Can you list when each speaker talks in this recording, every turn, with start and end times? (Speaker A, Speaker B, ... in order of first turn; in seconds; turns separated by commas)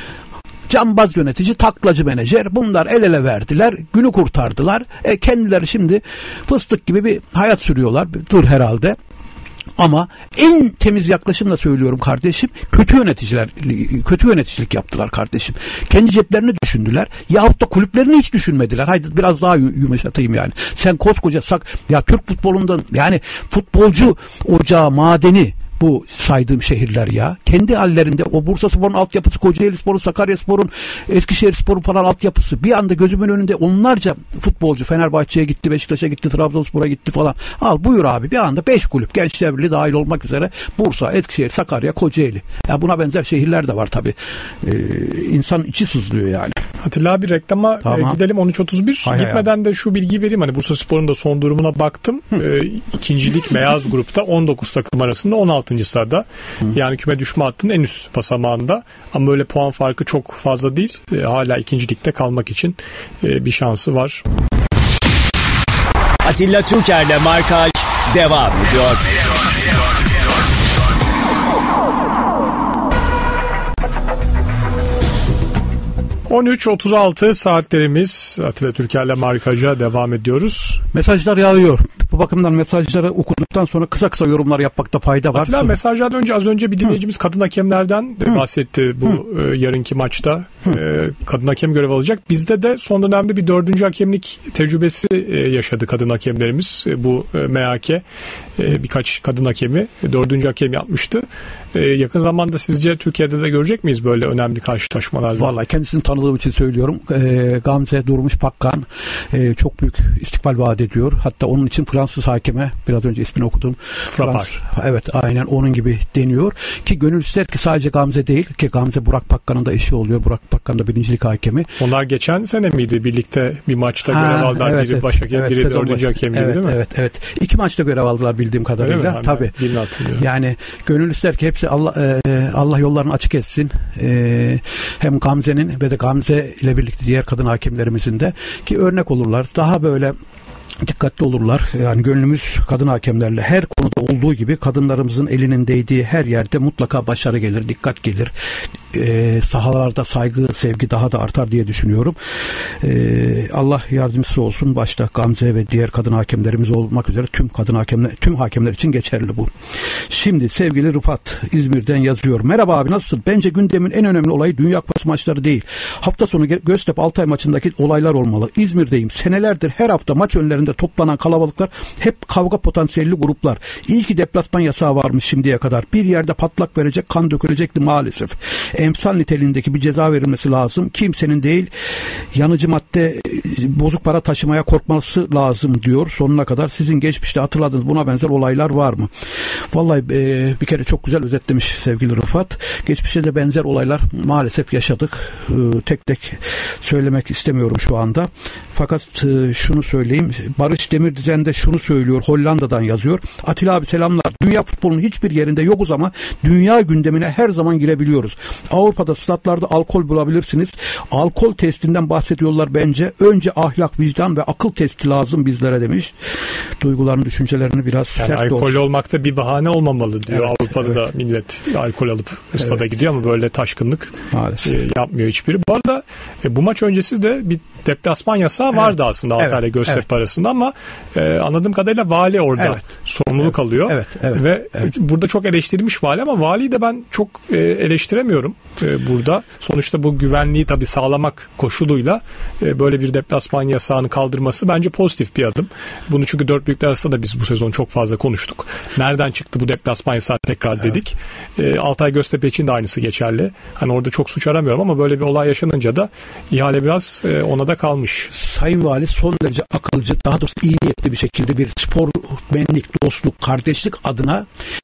Speaker A: 0.7-8.9, Speaker A: 9.8-46.6, Speaker B: 46.8-64.2, Speaker A: 47.8-48.2, Speaker A: 49.0-49.5, Speaker C: 66.2-69.2, Speaker B: 76.3-80.8, Speaker A: 80.9-85.7, Speaker B: 85.3-98.0, Speaker B: 98.6-105.5, Speaker A: 105.3-121.7, Speaker B: 114.1-114.5, Speaker B: 121.8-126.8, Speaker A: 124.1-129.5, Speaker B: 128.8-130.2, Speaker A: 130.2-140.1, Speaker A: 140.8-148.3, Speaker A: 148.9-152.2, Speaker A: 152.8-159.5, Speaker A: 160.1-181.7, Speaker A: 182.3-189.1, Speaker A: 189.7-216.1, Speaker A: 216.8-218.8, Speaker B: 218.2-258.3, Speaker A: 220.3-221.0, Speaker A: 224.3-224.7, Speaker A: 229.4-230.0, Speaker A: 233.4-234.9, Speaker A: 258.3-264.4